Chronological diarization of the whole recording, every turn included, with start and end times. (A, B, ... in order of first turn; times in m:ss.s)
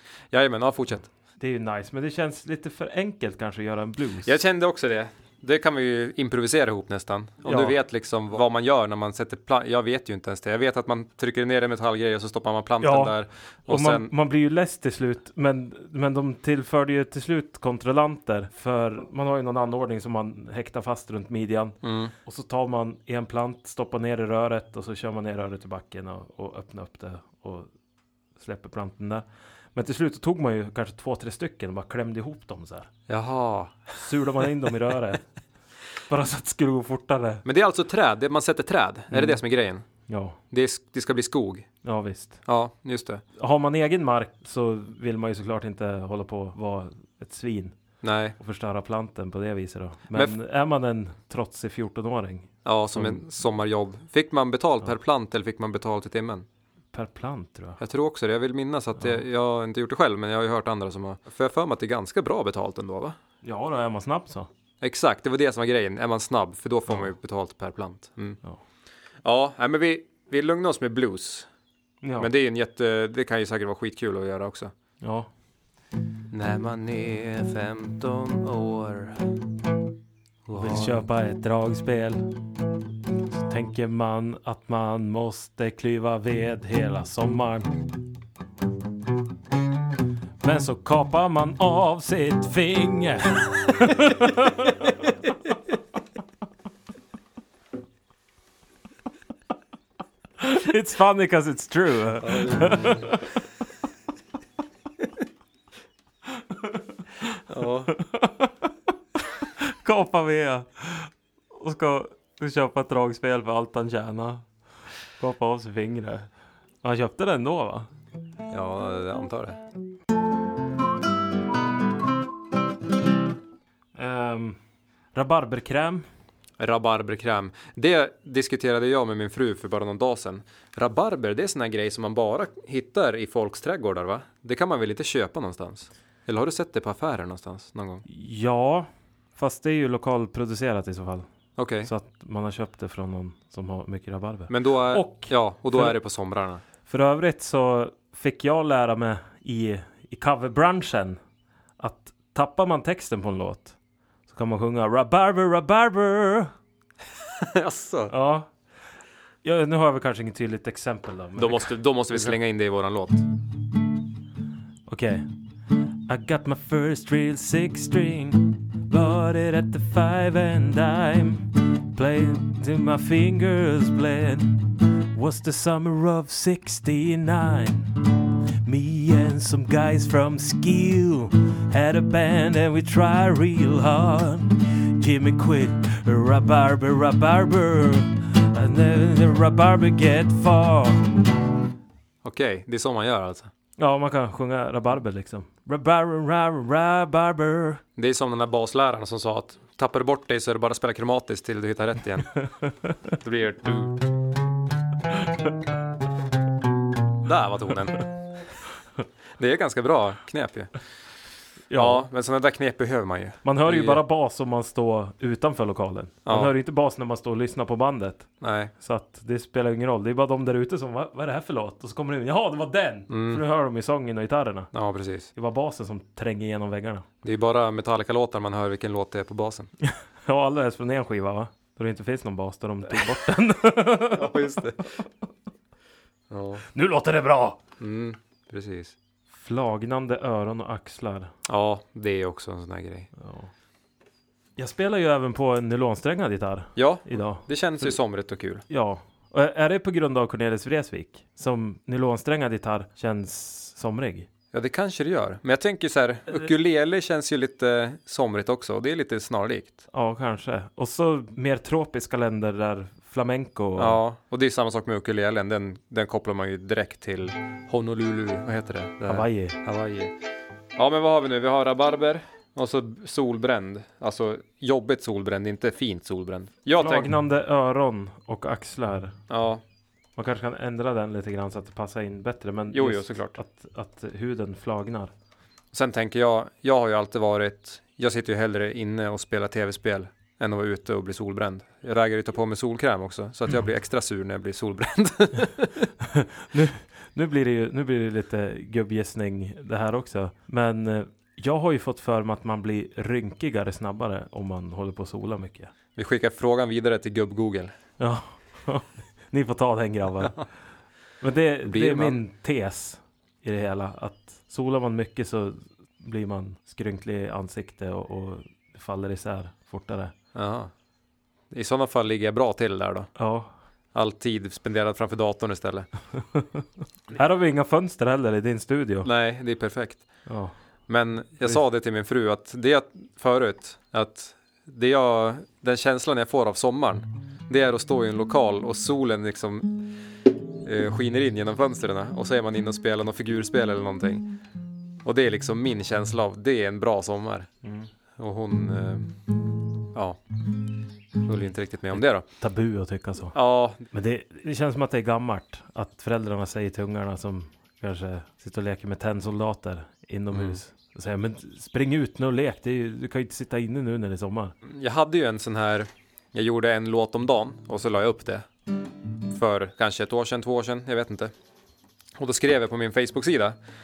0:00.3-0:01.1 A
0:01.4-0:04.3 B
0:04.2-0:14.1 A
0:07.4-0:07.8 B
0:12.8-0:13.2 B
0:13.7-0:27.7 B
0:21.8-0:22.1 A
0:28.4-0:32.9 B
0:33.1-0:34.0 A
0:34.0-0:35.3 B
0:36.1-0:37.4 B
0:37.4-0:39.9 A
0:39.1-0:39.4 B
0:40.1-0:40.4 B
0:40.5-0:41.8 A
0:41.8-0:42.4 B
0:42.4-0:43.2 A
0:43.4-0:47.8 B
0:48.0-0:48.4 A
0:48.4-0:53.2 B
0:52.6-0:56.5 A
0:56.9-0:57.8 B
0:57.8-1:03.2 A
1:03.4-1:04.5 B
1:04.8-1:08.4 A
1:09.2-1:11.5 A
1:12.0-1:12.3 B
1:12.2-1:14.7 A
1:15.0-1:15.3 B
1:16.3-1:19.3 A
1:20.5-1:21.0 A
1:20.6-1:22.3 B
1:23.5-1:27.7 B
1:30.4-1:35.1 B
1:40.4-1:43.2 B
1:42.2-1:43.1 A
1:46.7-1:47.2 B
1:47.5-1:47.9 A
1:47.9-1:48.7 B
1:49.6-1:54.5 B
1:55.2-1:56.3 B
1:56.8-1:57.9 B
1:58.5-1:59.6 A
2:04.0-2:04.6 B
2:05.1-2:06.1 B
2:06.6-2:18.0 A
2:18.0-2:21.2 B
2:21.6-2:21.9 A
2:21.8-2:26.0 B
2:24.5-2:26.6 A
2:26.8-2:31.2 B
2:31.8-2:36.5 B
2:37.4-2:38.1 A
2:38.1-2:38.5 B
2:39.4-2:42.3 B
2:41.4-2:43.2 A
2:44.9-2:45.3 B
2:46.1-2:58.0 B
2:58.6-3:11.2 B
3:12.2-3:13.5 A
3:13.8-3:17.8 B
3:18.0-3:22.3 A
3:23.2-3:24.0 A
3:27.2-3:28.1 A
3:29.4-3:30.8 A
3:31.7-3:32.0 B
3:31.8-3:34.0 A
3:33.4-3:38.3 B
3:36.2-3:36.5 A
3:38.4-3:38.7 A
3:38.8-3:44.7 B
3:43.1-3:43.4 A
3:44.7-3:45.3 A
3:45.3-3:47.0 B
3:47.2-3:49.7 A
3:49.8-3:54.4 B
3:54.1-3:54.9 A
3:56.3-3:56.6 A
3:56.7-3:57.6 B
3:57.8-3:59.0 A
3:59.4-4:01.3 B
4:01.5-4:03.1 A
4:03.2-4:03.5 B
4:04.6-4:08.0 B
4:06.8-4:08.6 A
4:08.7-4:14.3 B
4:14.5-4:19.8 A
4:19.9-4:24.0 B
4:23.8-4:30.1 A
4:29.1-4:29.6 B
4:30.8-4:37.1 A
4:36.8-4:39.2 B
4:39.3-4:39.6 A
4:40.2-4:45.1 B
4:42.7-4:43.4 A
4:45.7-4:55.9 A
4:56.1-5:05.7 B
5:06.0-5:07.7 A
5:08.0-5:10.5 B
5:11.2-5:20.1 B
5:11.6-5:12.2 A
5:20.3-5:20.7 A
5:21.5-5:23.1 A
5:23.2-5:23.5 B
5:23.9-5:25.9 A
5:26.2-5:29.1 B
5:29.0-5:30.2 A
5:30.3-5:30.6 B
5:30.9-5:39.8 A
5:40.6-5:44.3 A
5:45.0-5:47.5 A
5:47.6-5:47.9 B
5:48.2-5:49.2 A
5:49.9-5:50.2 A
5:51.2-5:52.3 A
5:51.9-6:04.5 B
5:53.3-5:53.8 A
6:00.3-6:00.6 A
6:04.6-6:08.5 A
6:09.3-6:11.3 A
6:12.2-6:13.6 A